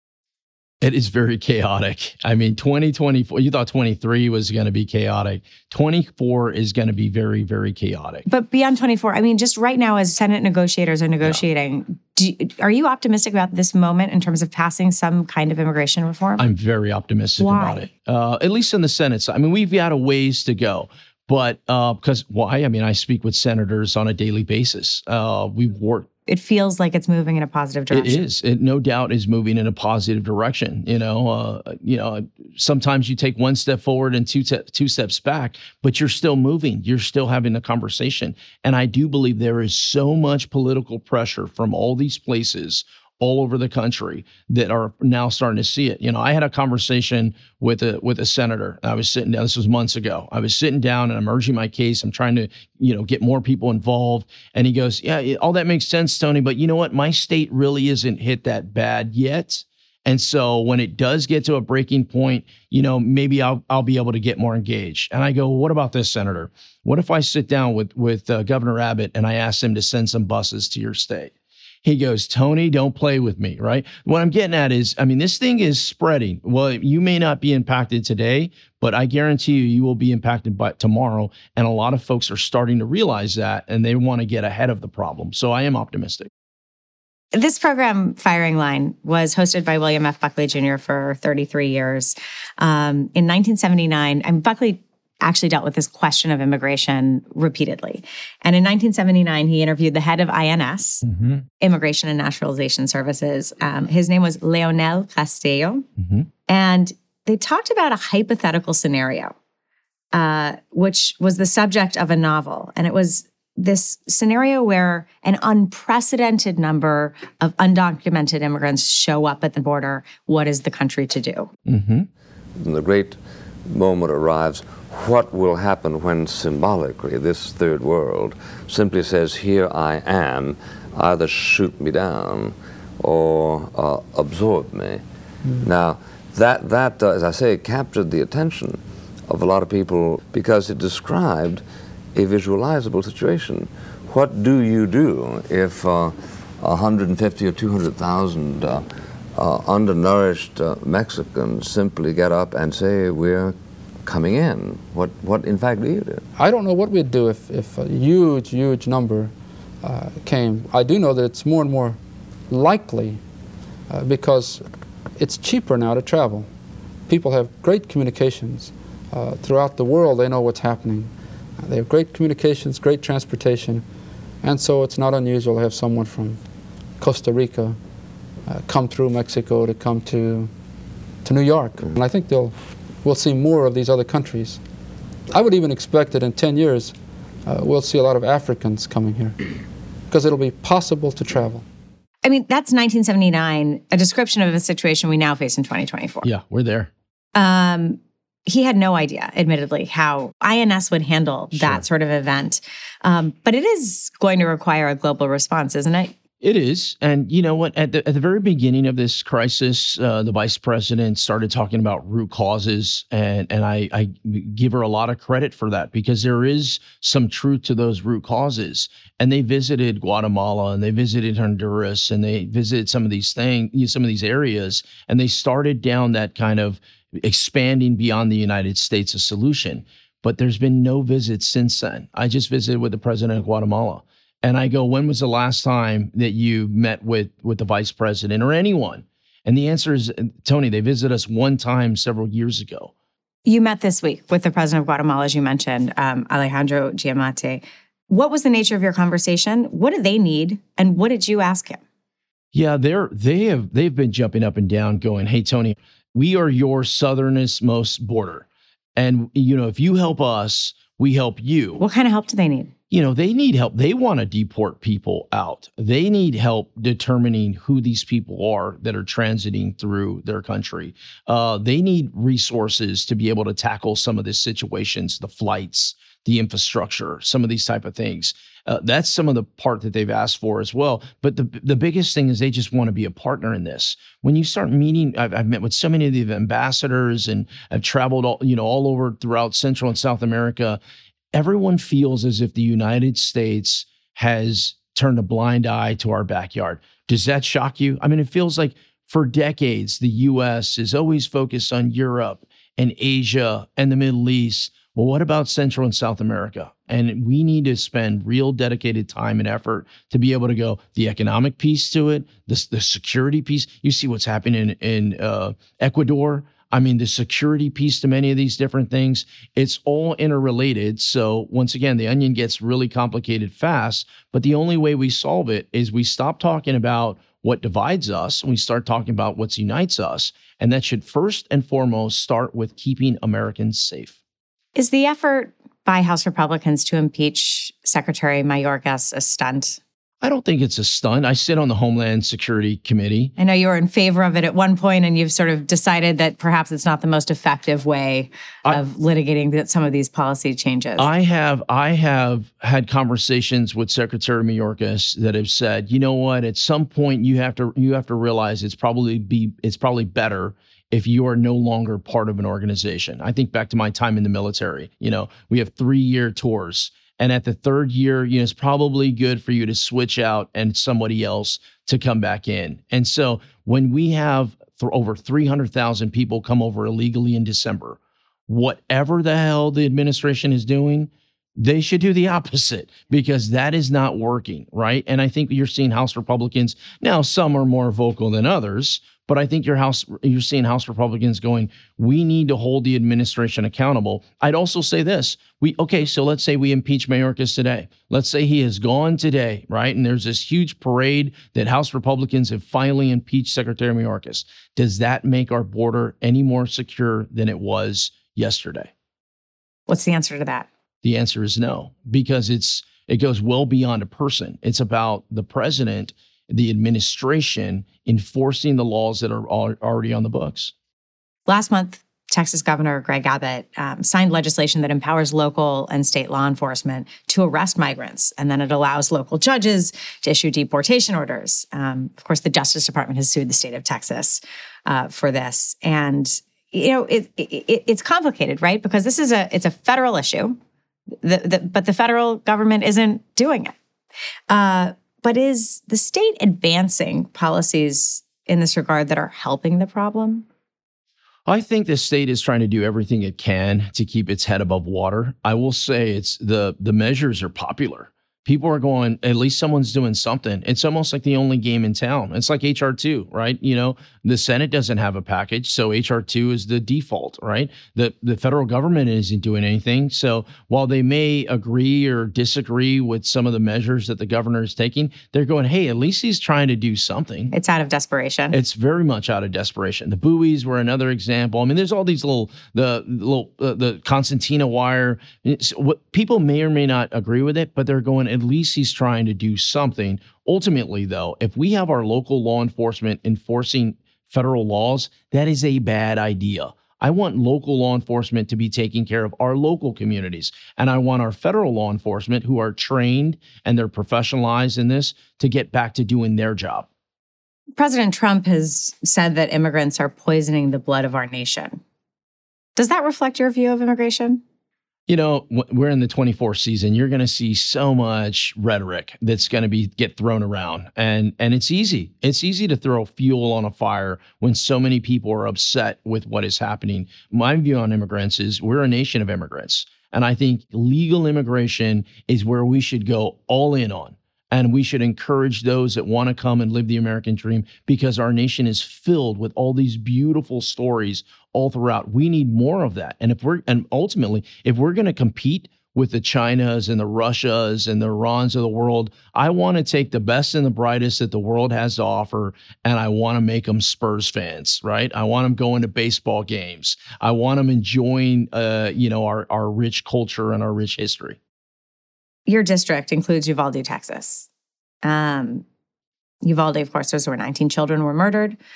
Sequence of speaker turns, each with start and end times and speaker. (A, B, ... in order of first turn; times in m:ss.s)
0:00.8-0:08.2 A
0:08.3-0:16.5 B
0:16.4-0:26.1 A
0:17.4-0:17.9 B
0:26.3-0:28.2 B
0:27.9-1:11.3 A
1:11.8-1:26.3 A
1:27.3-1:41.0 B
1:41.0-1:41.4 A
1:41.6-1:45.9 B
1:46.0-1:46.3 A
1:46.5-1:49.3 B
1:50.1-2:01.5 B
2:01.6-2:02.1 A
2:02.6-2:15.0 C
2:15.6-2:21.6 C
2:22.1-2:28.8 C
2:29.4-2:36.2 C
2:36.4-2:39.3 D
2:39.8-2:42.0 D
2:42.5-2:43.2 D
2:43.9-2:44.6 D
2:45.2-2:46.5 D
2:47.1-2:51.1 D
2:51.6-2:53.8 D
2:54.4-2:56.4 D
2:57.0-2:57.8 D
2:58.4-3:00.5 D
3:01.2-3:04.6 D
3:05.3-3:06.9 D
3:07.4-3:09.4 D
3:10.1-3:11.6 D
3:12.2-3:16.3 B
3:16.2-3:16.9 A
3:17.3-3:26.1 B
3:21.5-3:21.8 A
3:26.4-4:02.9 A
4:03.4-4:11.8 B
4:12.5-4:21.8 A
4:21.8-4:22.7 B
4:22.9-4:50.8 A
4:51.3-5:34.2 A
5:34.8-5:39.8 B
5:40.2-5:43.3 A
5:43.4-5:51.1 B
5:51.0-6:48.9 A
6:49.9-6:50.7 B
6:51.0-7:00.7 A
7:01.5-7:20.6 B
7:21.2-7:23.8 B
7:24.5-7:30.4 B
7:31.5-7:57.5 A
7:57.5-7:58.6 B
7:58.5-8:26.9 A
8:27.8-8:31.8 B
8:32.8-8:34.4 B
8:35.1-9:21.4 A
9:22.5-9:24.5 B
9:25.0-9:25.6 B
9:26.4-9:28.6 B